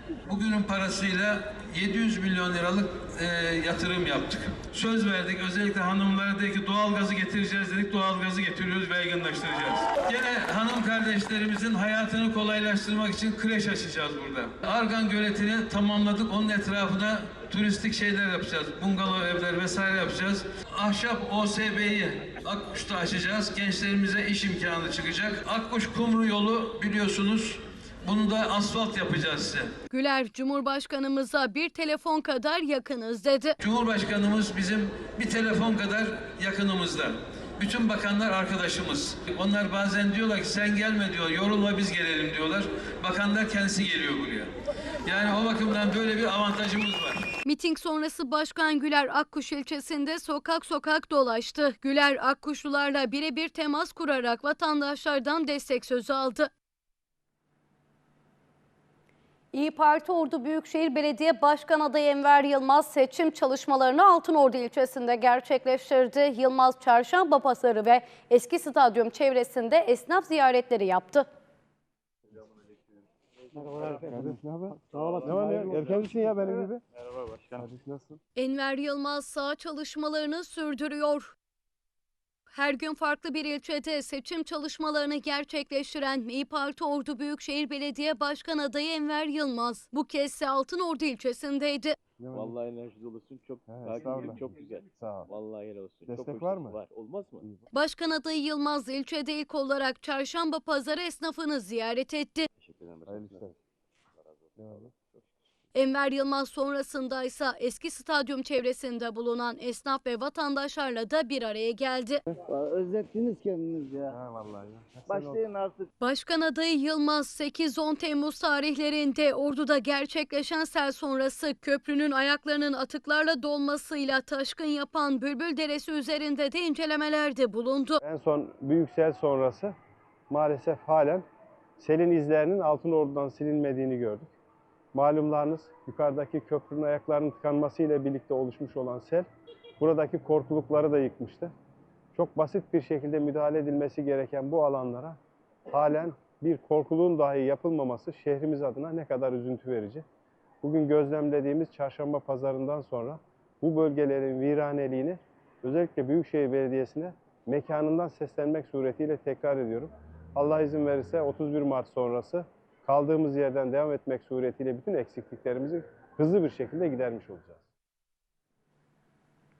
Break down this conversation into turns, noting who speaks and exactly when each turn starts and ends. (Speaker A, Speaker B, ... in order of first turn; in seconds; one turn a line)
Speaker A: 0.2-29.7
Speaker B: 29.9-33.5
Speaker A: 33.6-44.5
Speaker A: 45.0-47.3
Speaker B: 47.4-56.5
Speaker B: 59.5-71.3
Speaker C: 72.3-72.7
Speaker C: 73.5-77.6
Speaker D: 73.8-74.4
Speaker E: 73.8-76.8
Speaker E: 77.6-78.2
Speaker B: 78.3-81.3
Speaker B: 82.5-92.0
Speaker E: 92.2-92.5
Speaker C: 92.3-97.6
Speaker E: 93.7-95.3
Speaker E: 96.1-96.8
Speaker B: 97.7-102.5
Speaker C: 102.5-103.5
Speaker E: 103.1-103.5
Speaker C: 104.2-105.3
Speaker B: 105.7-112.2
Speaker D: 112.5-114.2
Speaker E: 114.3-115.4
Speaker D: 115.0-115.9
Speaker B: 116.0-128.0
Speaker E: 128.0-129.7
Speaker E: 130.3-131.2
Speaker E: 131.8-134.3
Speaker E: 134.9-139.3
Speaker E: 139.8-141.5
Speaker E: 142.1-145.2
Speaker E: 145.7-150.0
Speaker E: 150.6-167.6